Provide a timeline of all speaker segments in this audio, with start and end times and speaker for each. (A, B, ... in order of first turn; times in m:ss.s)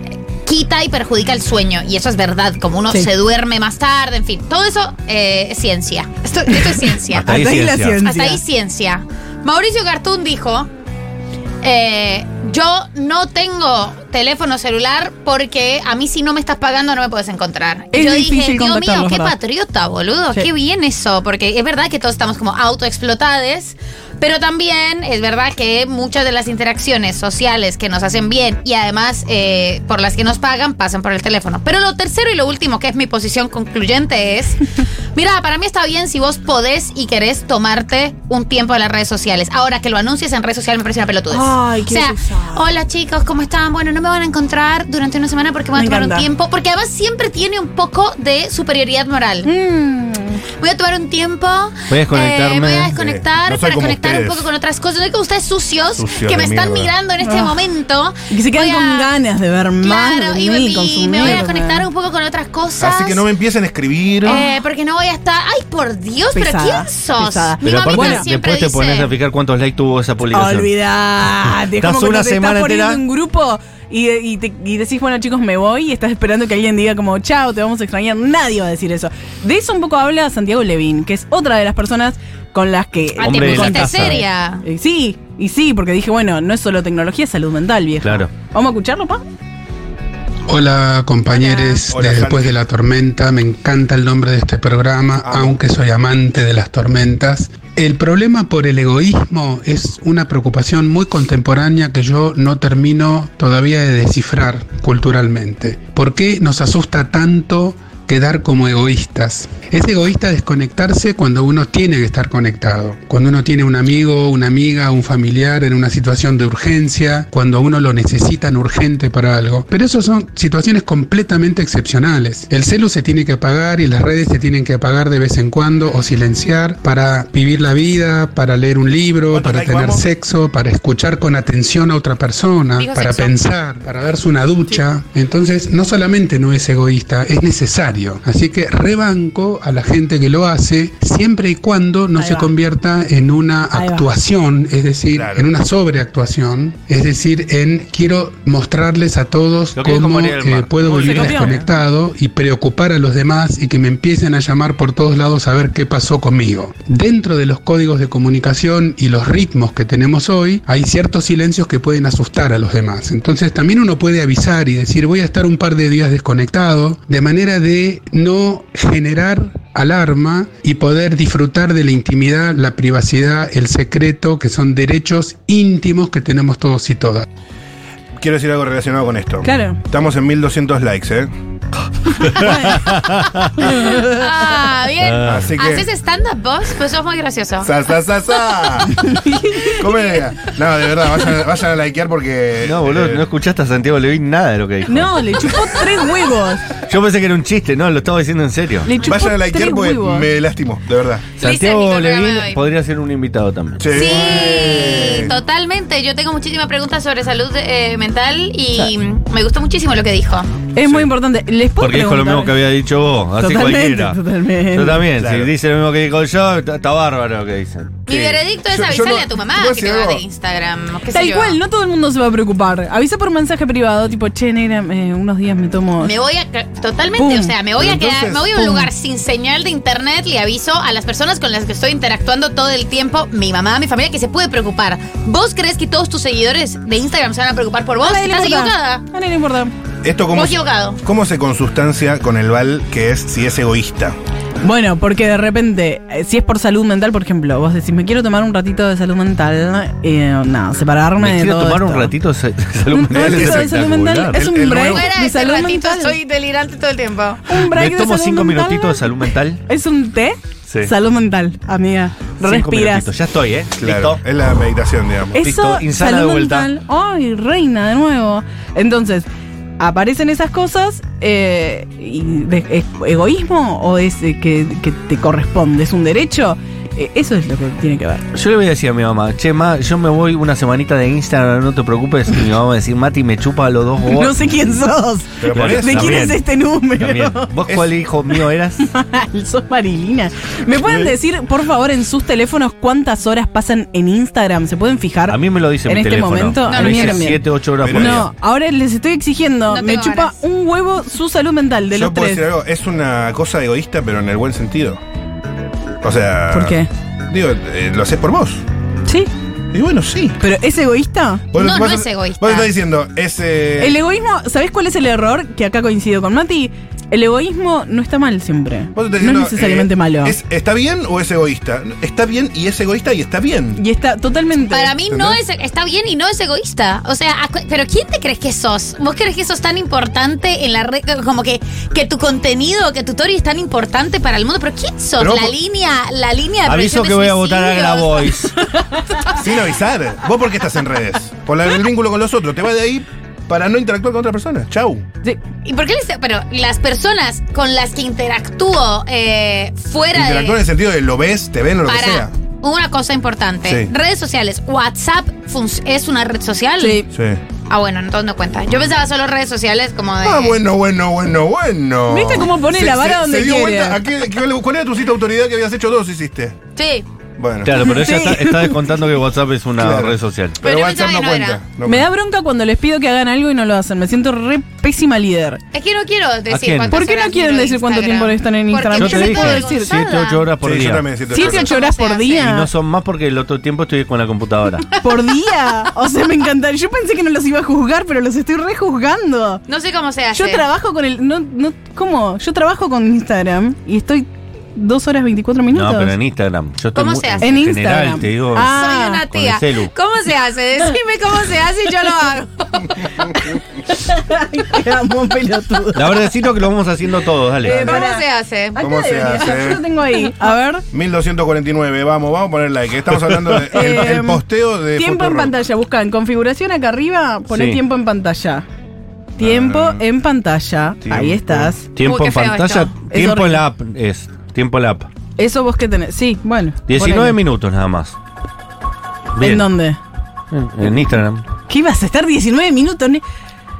0:00.4-0:07.3 A
0:06.5-0:08.4 B
0:07.1-0:08.0 C
0:08.0-0:10.7 A
0:11.6-0:34.6 A
0:17.9-0:19.3 B
0:35.1-0:49.5 A
0:41.3-0:42.6 B
0:45.7-0:46.3 B
0:49.4-0:50.4 B
0:50.6-0:59.1 A
0:51.9-0:53.0 C
0:52.9-0:54.5 D
0:55.9-0:56.9 D
0:57.2-0:57.6 B
0:58.3-1:01.8 B
0:59.8-1:03.2 A
1:02.8-1:04.4 D
1:04.2-1:09.1 A
1:04.2-1:04.6 B
1:06.3-1:08.3 B
1:07.6-1:10.7 C
1:10.3-1:29.2 B
1:11.7-1:13.0 C
1:23.2-1:24.6 A
1:23.2-1:24.2 C
1:28.0-1:28.3 C
1:30.5-2:57.2 E
1:31.3-1:31.8 B
1:31.9-1:32.6 D
1:35.2-1:35.6 D
2:09.3-2:10.0 D
2:12.8-2:13.3 A
2:22.1-2:22.5 B
2:23.7-2:24.1 B
2:25.1-2:25.5 D
2:29.7-2:31.7 C
2:31.0-2:31.6 B
2:58.2-3:01.3 D
2:59.4-2:59.8 B
3:02.1-3:03.7 C
3:02.3-3:02.9 B
3:03.6-3:03.9 B
3:03.8-3:07.7 A
3:05.0-3:05.4 C
3:05.2-3:05.9 D
3:07.6-3:09.1 D
3:09.1-3:09.7 B
3:09.8-3:13.3 D
3:12.6-3:15.2 C
3:14.9-3:16.7 B
3:16.9-3:18.9 C
3:18.8-3:20.3 B
3:19.0-3:21.4 D
3:21.4-3:23.9 C
3:21.4-3:22.7 A
3:23.8-3:25.3 D
3:23.9-3:30.5 A
3:30.7-3:32.7 B
3:31.8-3:34.2 C
3:33.3-3:35.1 B
3:34.7-3:38.4 C
3:35.2-3:35.5 D
3:38.0-3:41.6 A
3:38.7-3:40.2 D
3:41.1-3:46.1 B
3:46.0-3:59.0 A
3:47.2-3:47.5 B
3:47.8-3:48.6 D
3:48.6-3:48.9 B
3:58.0-3:59.7 B
4:00.0-4:04.2 D
4:00.3-4:01.0 A
4:04.6-4:12.1 B
4:11.2-4:14.4 C
4:12.9-4:16.2 B
4:13.1-4:13.7 D
4:14.3-4:15.1 D
4:14.7-4:17.4 A
4:17.4-4:19.1 B
4:17.7-4:19.6 C
4:19.6-4:23.1 B
4:22.4-4:24.2 C
4:23.8-4:25.4 D
4:25.3-4:29.2 B
4:25.4-4:26.7 C
4:29.8-4:38.2 B
4:38.3-4:44.4 C
4:44.1-4:47.5 B
4:45.4-4:46.3 D
4:45.5-4:46.4 C
4:47.0-4:48.8 C
4:47.6-4:48.0 D
4:48.8-5:02.4 B
4:50.8-4:51.1 D
4:55.3-4:58.3 C
4:56.6-4:57.3 A
4:57.8-4:58.2 D
4:59.7-5:00.4 A
5:01.9-5:05.0 D
5:06.0-5:08.6 D
5:06.5-5:06.9 B
5:09.7-5:10.4 D
5:10.4-5:11.4 B
5:11.5-5:14.0 D
5:11.5-5:12.7 A
5:13.8-5:20.4 B
5:18.9-5:23.8 D
5:23.8-5:24.9 B
5:24.5-5:38.3 A
5:25.1-5:25.4 D
5:35.2-5:35.6 D
5:36.6-5:38.5 C
5:38.8-5:39.2 B
5:39.4-5:45.0 D
5:45.6-5:50.7 A
5:50.1-5:52.3 D
5:51.8-5:57.0 A
5:53.6-5:53.9 D
5:56.8-5:57.1 B
5:57.1-5:57.4 D
5:57.7-6:00.6 A
6:00.2-6:06.6 D
6:02.1-6:04.0 B
6:06.8-6:07.0 A
6:07.4-6:07.8 D
6:07.6-6:10.6 C
6:07.8-6:08.8 B
6:09.8-6:12.1 D
6:10.6-6:11.6 A
6:11.8-6:15.6 B
6:15.7-6:20.4 A
6:16.5-6:16.9 C
6:16.9-6:20.2 B
6:19.0-6:21.1 C
6:20.6-6:21.7 D
6:21.3-6:22.7 B
6:21.3-6:22.4 A
6:22.4-6:24.8 C
6:24.8-6:25.1 A
6:25.0-6:29.6 B
6:29.7-6:30.6 A
6:30.3-6:36.2 B
6:35.7-6:38.7 C
6:36.9-6:37.5 A
6:37.4-6:39.2 B
6:38.7-6:43.5 A
6:39.3-6:39.9 C
6:43.9-6:46.2 B
6:45.9-6:47.9 C
6:47.6-6:48.2 B
6:47.7-6:48.8 A
6:48.8-6:50.8 B
6:48.8-6:49.8 D
6:50.9-6:55.5 D
6:53.7-6:54.4 B
6:55.0-6:58.6 B
6:57.5-6:57.8 C
6:59.4-7:00.0 D
6:59.4-7:01.9 B
7:01.0-7:01.8 D
7:01.9-7:05.1 C
7:02.0-7:03.0 A
7:03.1-7:03.6 B
7:05.4-7:07.4 B
7:06.9-7:08.2 C
7:09.3-7:09.7 C
7:09.4-7:10.0 B
7:10.5-7:11.4 C
7:11.7-7:13.2 B